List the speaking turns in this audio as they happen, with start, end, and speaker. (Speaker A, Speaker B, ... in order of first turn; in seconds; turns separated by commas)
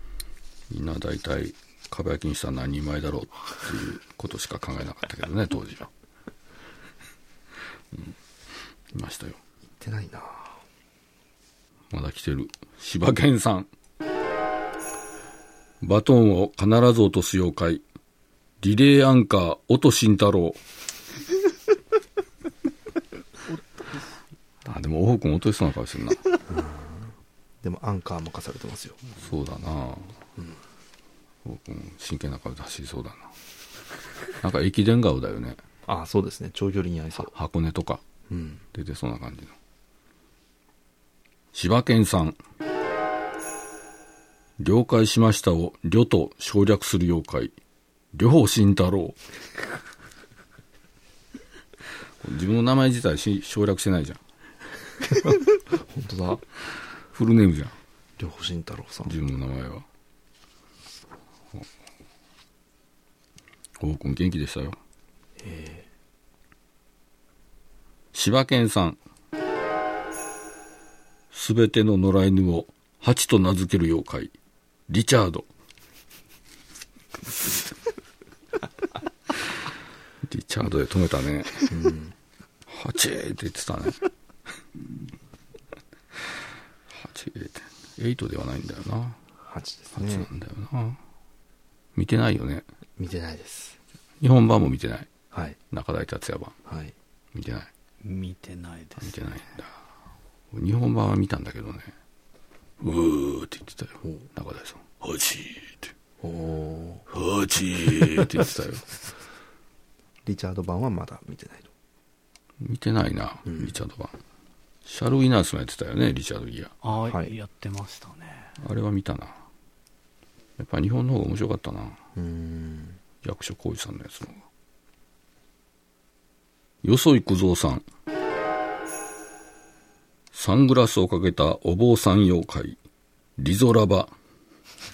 Speaker A: 0.7-5.9, Speaker A: 8.9-9.4, Speaker B: 9.8-10.6, Speaker A: 11.9-13.7, Speaker A: 15.8-17.8, Speaker A: 18.6-20.6, Speaker A: 24.6-26.2, Speaker B: 26.5-27.1, Speaker B: 27.6-29.1, Speaker A: 29.2-30.1, Speaker A: 31.4-33.3, Speaker A: 34.4-35.6, Speaker B: 35.9-37.3, Speaker A: 37.2-38.0, Speaker B: 38.3-38.6, Speaker A: 38.7-39.5, Speaker A: 41.5-42.4, Speaker A: 44.6-47.5, Speaker A: 48.1-49.2, Speaker A: 52.2-54.2, Speaker B: 55.2-56.4, Speaker A: 57.1-57.7, Speaker B: 58.2-59.1, Speaker A: 59.0-59.9, Speaker A: 63.8-64.8, Speaker B: 65.4-65.8, Speaker A: 68.1-69.0, Speaker A: 71.3-74.3, Speaker A: 74.9-75.5, Speaker A: 80.2-81.7, Speaker B: 81.7-82.1, Speaker A: 82.7-84.0, Speaker A: 86.9-89.2, Speaker B: 89.5-90.3, Speaker A: 89.9-91.0, Speaker A: 91.9-92.7, Speaker B: 93.0-93.8, Speaker A: 94.2-95.1, Speaker B: 95.3-95.6, Speaker A: 95.7-96.5, Speaker B: 96.7-96.9, Speaker A: 97.3-97.7, Speaker C: 98.0-99.2, Speaker A: 99.0-99.7, Speaker A: 100.5-101.9, Speaker A: 102.8-105.9, Speaker B: 106.2-107.0, Speaker A: 107.1-108.8, Speaker B: 110.2-111.7, Speaker A: 112.6-114.2, Speaker B: 113.5-113.7, Speaker A: 114.8-116.7, Speaker C: 116.8-118.5, Speaker B: 117.1-117.3, Speaker A: 118.6-119.4, Speaker A: 120.6-122.0, Speaker B: 122.2-123.0, Speaker A: 123.2-124.4, Speaker A: 126.8-127.8, Speaker A: 130.3-132.8, Speaker A: 133.4-134.1